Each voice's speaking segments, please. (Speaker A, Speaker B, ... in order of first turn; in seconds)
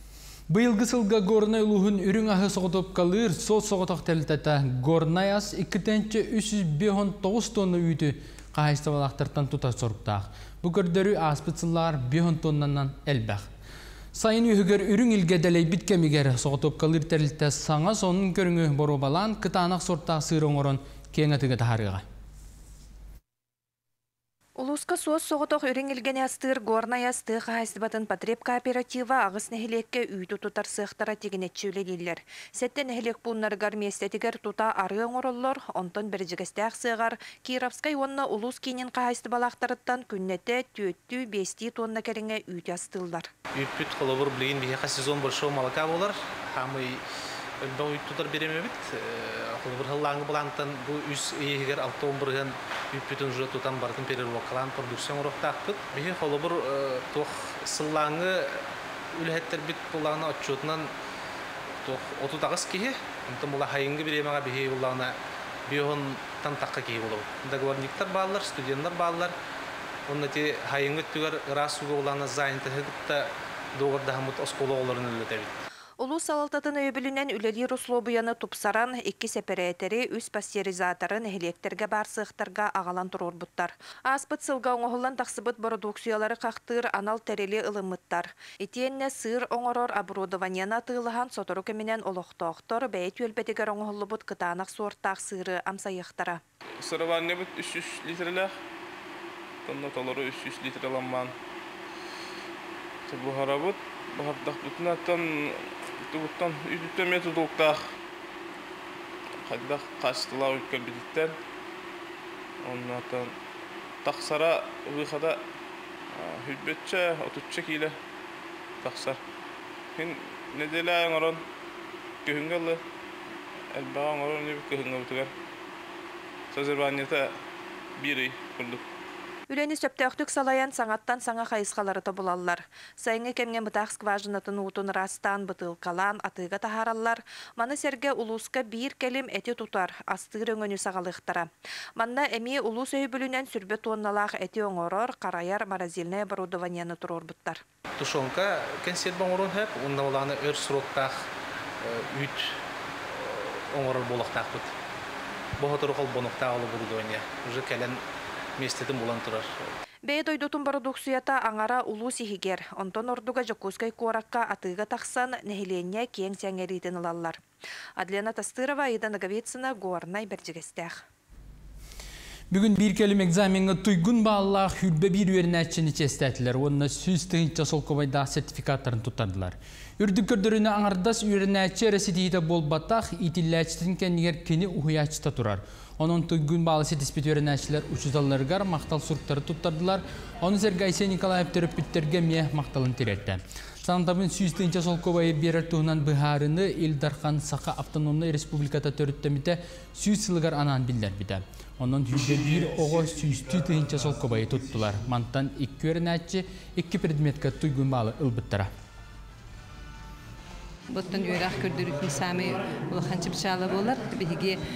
Speaker A: 0.5-13.5, 14.1-22.0, 172.5-208.7
Speaker B: 24.6-43.3, 76.0-96.4, 129.5-147.6, 160.1-167.4, 168.0-171.0
Speaker C: 43.5-47.0, 47.6-58.6, 59.1-60.9, 61.8-65.2, 65.7-69.3, 70.1-75.6, 148.0-151.3, 151.8-154.7, 155.6-158.0, 158.6-159.5
Speaker D: 96.8-98.5, 99.7-101.3, 103.1-105.5, 106.1-107.8, 109.5-111.3, 112.6-113.3, 114.0-115.4, 116.1-117.9, 118.8-119.2, 120.0-121.4, 122.2-122.8, 123.7-125.3, 126.5-127.3, 128.0-128.8
Speaker E: 210.9-214.6